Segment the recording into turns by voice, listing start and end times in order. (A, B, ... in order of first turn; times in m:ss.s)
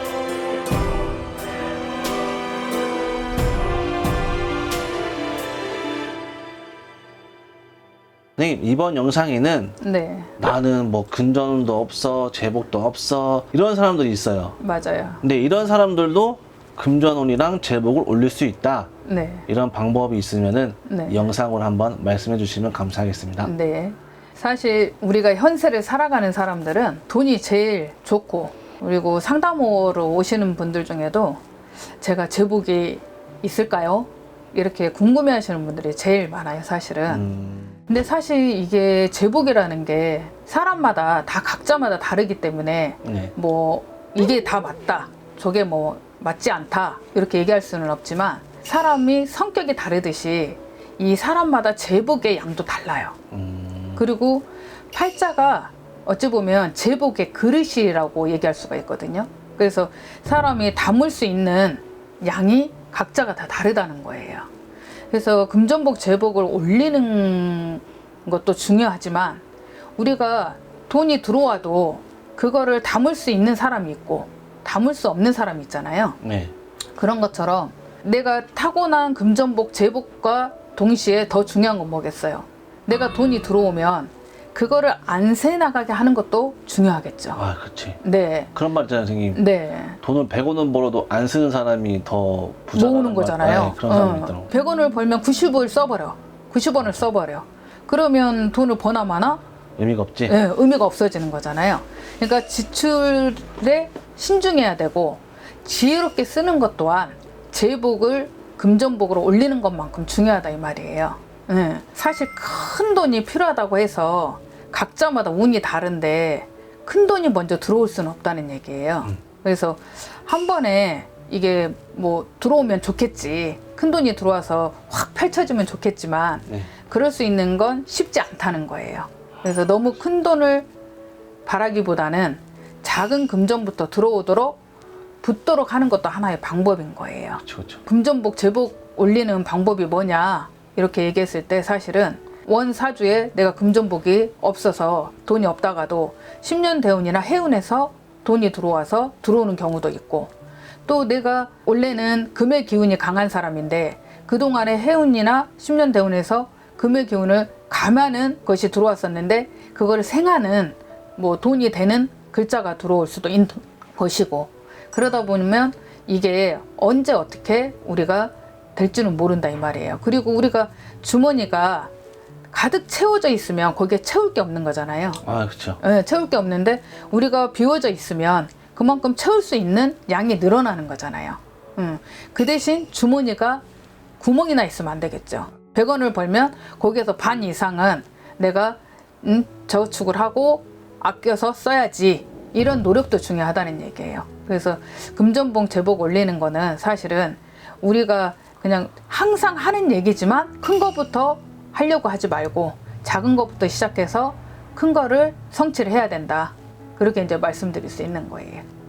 0:08.4-0:09.8 A
0:09.8-0:10.3 B
0:10.4-0:14.6 A
0:14.6-0:15.2 B
0:15.2-0:18.9 A
0:19.0-0:19.5 B
0:19.5-0:23.5 A
0:20.8-0:21.2 B
0:23.4-0:31.4 B
0:32.0-0:37.2 B
0:37.1-0:37.7 A
0:37.9-0:53.2 B
0:43.0-0:43.3 A
0:53.3-0:54.0 A
0:54.0-1:04.5 B
1:05.1-1:09.4 B
1:10.0-1:16.2 B
1:16.2-1:16.5 A
1:17.0-1:27.4 B
1:27.4-1:28.0 A
1:28.0-1:28.5 B
1:28.5-1:29.4 A
1:29.3-1:30.0 B
1:30.0-1:34.5 A
1:32.7-1:39.4 B
1:39.8-1:40.4 A
1:40.3-2:10.7 B
2:11.4-2:14.6 B
2:15.2-2:30.3 B
2:17.4-2:17.8 A
2:30.8-2:51.9 B
2:52.5-2:55.2 B
2:55.2-2:55.8 A
2:55.8-3:03.6 B
3:04.2-3:28.6 B